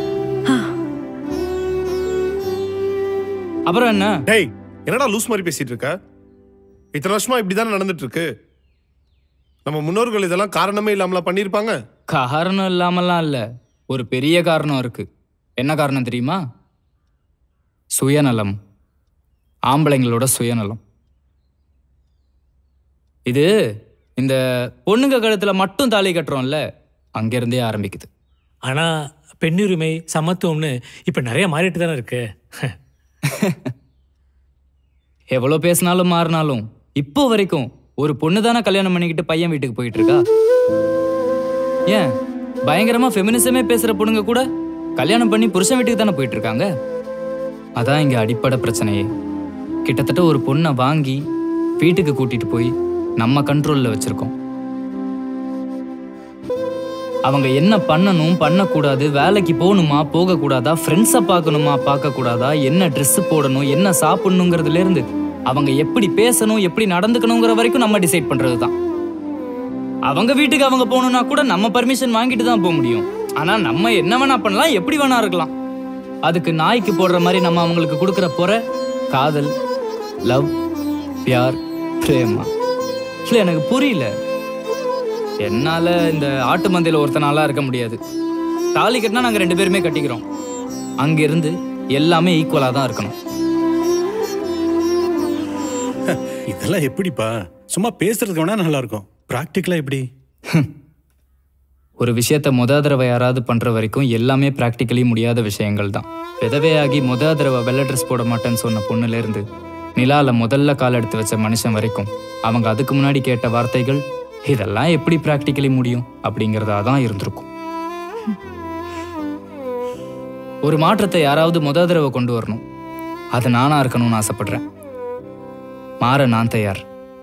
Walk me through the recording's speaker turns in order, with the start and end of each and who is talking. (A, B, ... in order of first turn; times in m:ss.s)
0:03.7-0:04.2 A
0:04.3-0:05.9 B
0:06.9-0:08.3 B
0:09.6-0:11.8 B
0:12.1-0:15.0 A
0:15.6-0:16.4 A
0:18.0-0:18.6 A
0:19.7-0:20.8 A
0:24.2-0:26.6 A
0:27.2-0:28.1 A
0:29.4-0:32.7 C
0:33.3-0:33.7 A
0:35.3-0:40.2 A
0:42.7-0:44.4 A
0:45.0-0:46.7 A
0:47.8-0:49.1 A
0:49.8-0:51.2 A
0:51.8-0:54.3 A
0:57.3-1:08.7 A
1:10.1-1:15.5 A
1:16.2-1:18.6 A
1:19.1-1:19.5 A
1:21.2-1:22.5 A
1:23.2-1:24.1 A
1:25.4-1:28.0 A
1:28.7-1:30.2 A
1:31.0-1:33.1 A
1:36.1-1:40.0 D
1:42.0-1:49.4 A
1:50.0-1:57.5 A
2:00.6-2:02.6 A
2:03.3-2:04.6 A
2:06.0-2:06.8 A